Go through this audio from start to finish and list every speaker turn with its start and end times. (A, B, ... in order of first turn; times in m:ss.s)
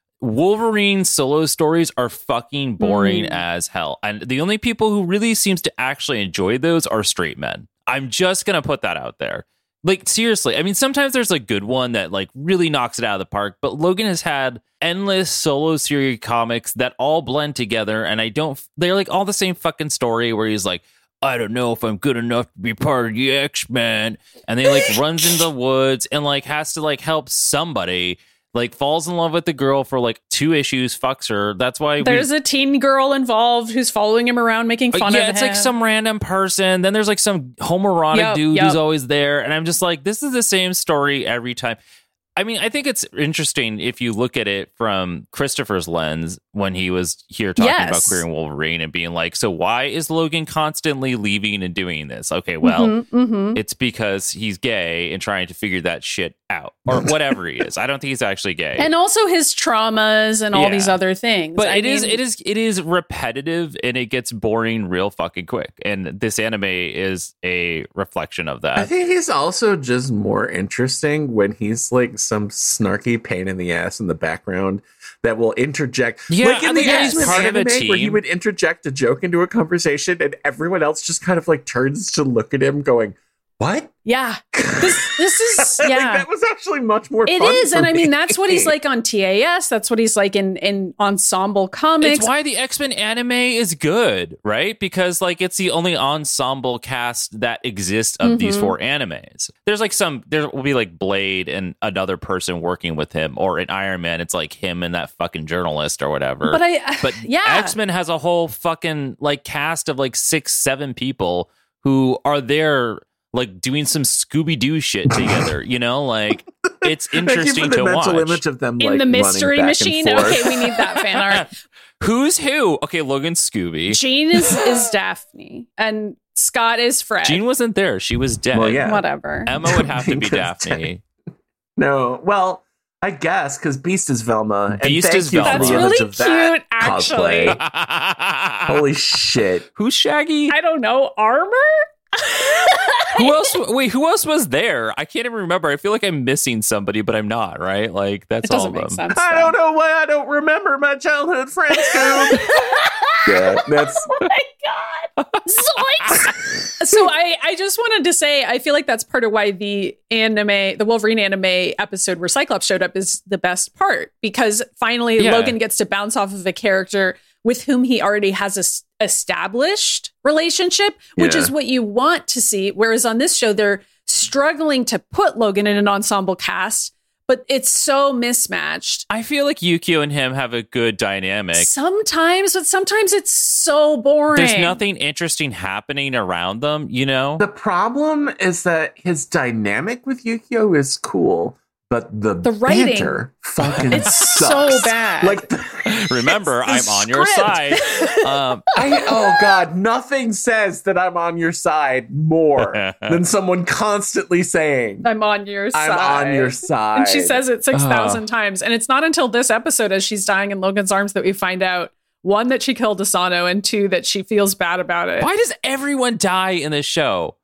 0:00.2-0:32.3 A
0:02.8-0:03.4 B
0:32.0-0:35.7 B
0:34.9-0:41.8 A
0:38.1-0:38.8 B
0:42.4-0:53.0 A
0:47.6-0:48.2 B
0:52.6-0:53.6 B
0:53.6-0:58.9 A
0:58.8-1:02.2 B
1:00.5-1:01.0 A
1:01.6-1:08.9 A
1:08.8-1:23.9 C
1:16.3-1:18.2 A
1:16.8-1:17.4 B
1:24.1-1:26.3 B
1:24.5-1:28.8 C
1:27.3-1:32.3 B
1:32.0-1:58.4 A
1:38.2-1:38.8 B
1:46.5-1:47.8 B
1:55.1-1:55.5 C
1:56.6-2:00.8 C
1:58.8-2:01.5 B
2:02.0-2:04.0 A
2:03.9-2:07.4 B
2:07.2-2:08.9 A
2:08.5-2:09.0 C
2:08.8-2:09.5 B
2:09.5-2:11.0 A
2:09.6-2:10.9 C
2:11.8-2:17.6 C
2:14.7-2:16.0 A
2:15.4-2:17.6 B
2:17.5-2:18.8 A
2:18.7-2:19.7 C
2:19.8-2:20.6 A
2:20.5-2:23.3 B
2:23.2-2:29.0 A
2:28.4-2:29.6 B
2:29.1-2:32.5 C
2:31.8-2:59.0 B
2:33.2-2:34.2 C
2:45.2-2:45.6 A
2:51.2-2:51.5 C
2:59.1-3:01.7 A
3:01.6-3:04.8 B
3:04.4-3:07.4 A
3:07.4-3:16.4 C
3:12.4-3:13.2 B
3:13.6-3:14.4 A
3:13.9-3:15.5 B
3:15.9-3:18.7 A
3:16.7-3:18.8 B
3:18.8-3:25.1 C
3:22.6-3:23.2 A
3:25.0-3:35.3 B
3:25.7-3:27.4 C
3:27.7-3:28.2 A
3:35.2-3:37.4 A